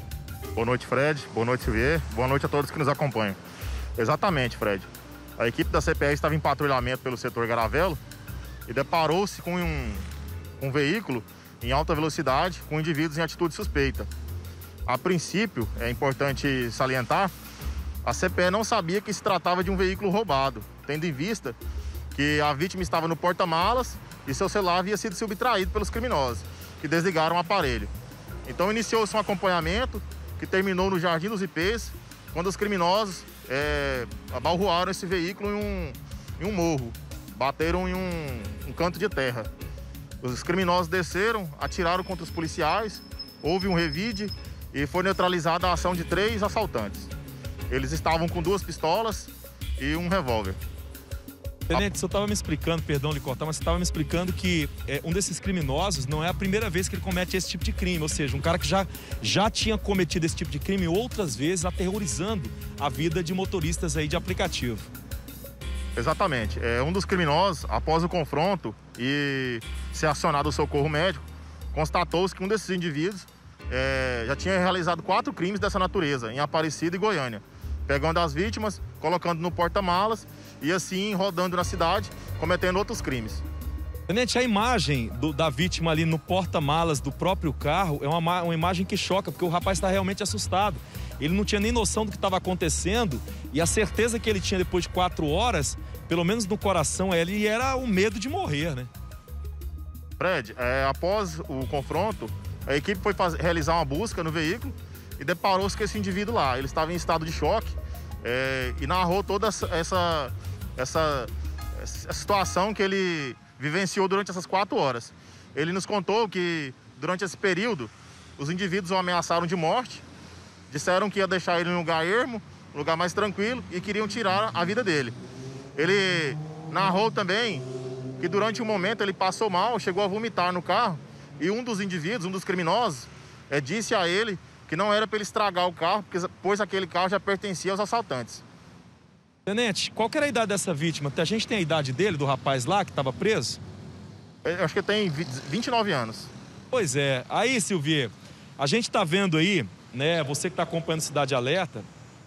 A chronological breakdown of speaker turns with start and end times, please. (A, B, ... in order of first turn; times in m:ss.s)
0:00.6-0:03.4 A
0:04.0-0:08.0 A
0:08.7-0:10.0 A
0:10.6-0:14.1 A
0:14.9-0:17.3 A
0:18.0-0:21.6 A
0:22.1-0:27.9 A
0:28.4-0:39.5 A
0:40.2-0:47.1 A
0:47.7-0:50.6 A
0:51.7-1:04.9 B
1:06.0-1:11.2 A
1:11.7-1:23.4 A
1:24.1-1:38.9 B
1:40.2-2:00.0 A
2:00.7-2:05.2 A
2:05.8-2:07.6 A
2:08.2-2:18.4 A
2:19.4-2:23.6 B
2:24.4-2:26.3 A
2:26.7-2:31.9 B